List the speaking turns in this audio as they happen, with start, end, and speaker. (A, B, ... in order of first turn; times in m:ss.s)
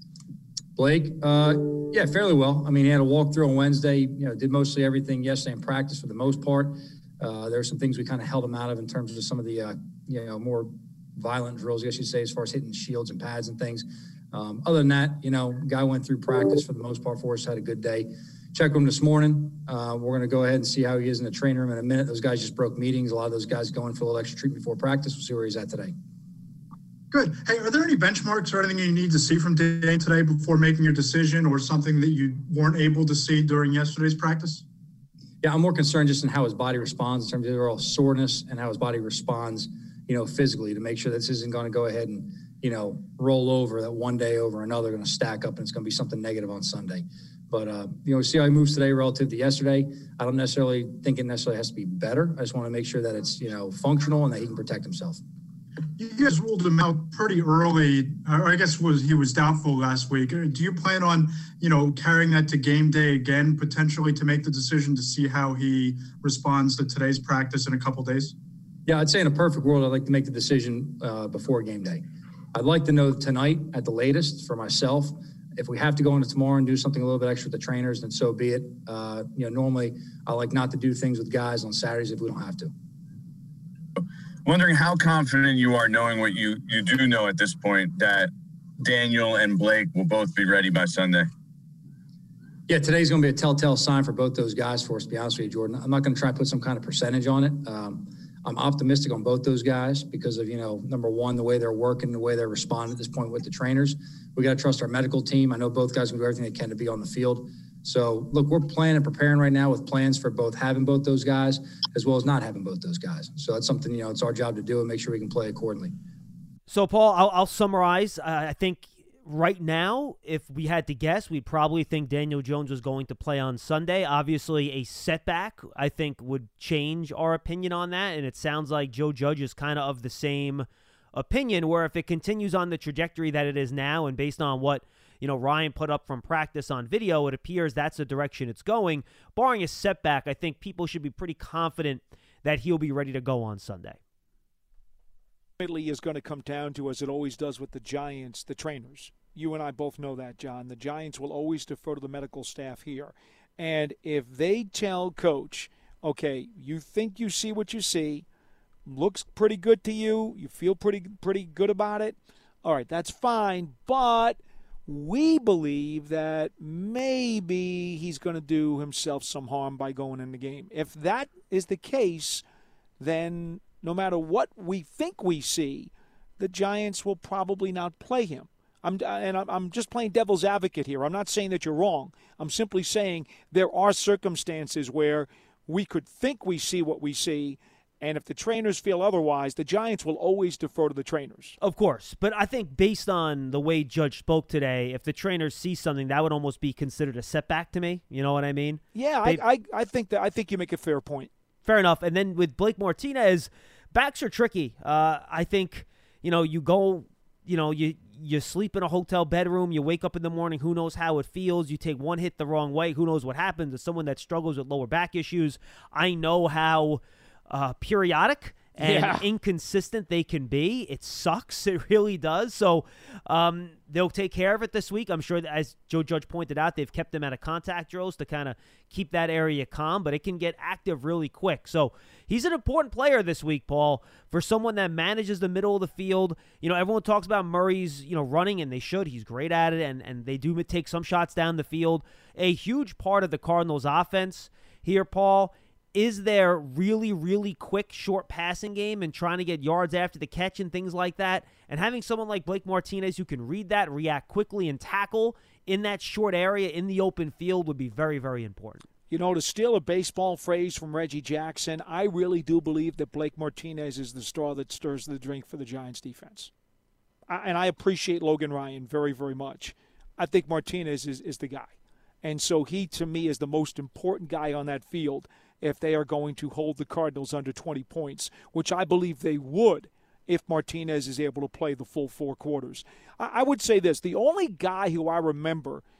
0:00.8-0:25.9 A
0:27.1-0:34.6 B
0:35.4-0:55.2 A
0:56.0-1:08.3 B
1:08.8-1:12.0 A
1:12.5-1:22.7 A
1:24.0-1:31.3 C
1:32.7-1:55.9 A
1:56.7-2:24.0 D
2:25.6-2:38.2 E
2:38.8-2:52.4 E
2:53.0-3:11.6 E
3:11.6-3:19.4 D
3:18.9-3:21.3 E
3:21.6-4:18.8 D
3:38.8-3:39.2 E
4:19.1-4:26.5 E
4:27.3-4:31.7 E
4:32.2-4:45.8 E